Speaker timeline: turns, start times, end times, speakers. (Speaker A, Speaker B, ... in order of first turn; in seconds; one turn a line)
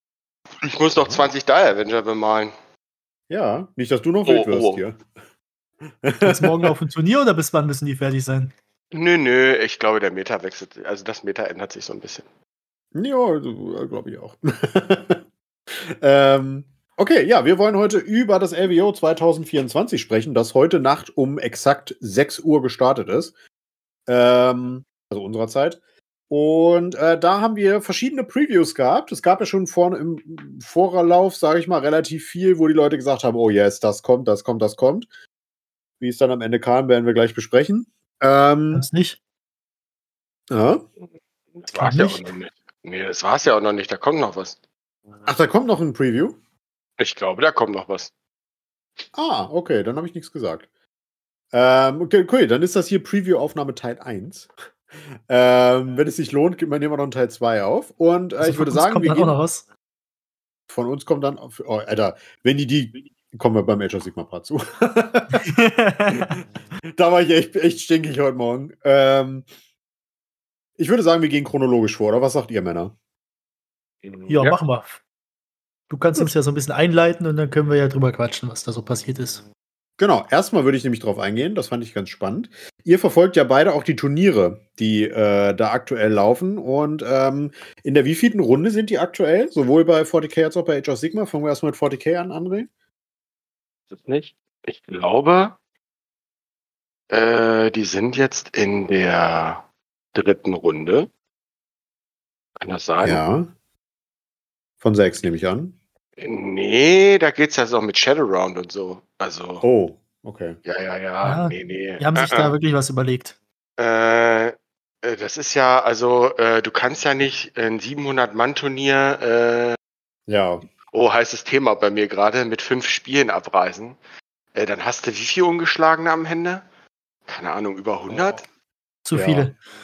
Speaker A: 0.6-2.5
Speaker B: 3.3-5.0
Speaker A: 4.2-4.8
Speaker B: 6.0-6.7
Speaker C: 6.2-8.5
Speaker A: 8.9-12.2
Speaker B: 12.9-23.3
Speaker B: 24.1-25.8
Speaker B: 26.3-35.1
Speaker B: 36.0-38.8
Speaker C: 38.7-39.2
Speaker B: 40.5-40.8
Speaker A: 41.5-44.6
Speaker C: 41.7-42.2
Speaker B: 45.2-46.4
Speaker A: 47.0-48.1
Speaker B: 49.1-50.6
Speaker B: 51.5-54.5
Speaker B: 55.3-59.3
Speaker C: 58.4-59.6
Speaker B: 60.7-65.5
Speaker C: 65.3-66.3
Speaker B: 66.9-69.4
Speaker B: 70.8-72.9
Speaker A: 74.0-74.6
Speaker C: 74.3-75.0
Speaker C: 75.9-79.4
Speaker B: 80.0-92.7
Speaker A: 93.9-95.5
Speaker A: 97.1-101.1
Speaker A: 102.6-103.2
Speaker B: 103.0-103.5
Speaker B: 104.8-105.7
Speaker A: 106.2-109.6
Speaker B: 109.6-110.6
Speaker A: 110.6-112.5
Speaker C: 111.2-113.3
Speaker A: 113.8-119.8
Speaker B: 120.3-120.6
Speaker A: 120.9-124.0
Speaker A: 124.5-126.6
Speaker A: 127.3-128.4
Speaker C: 129.1-129.5
Speaker B: 129.1-129.5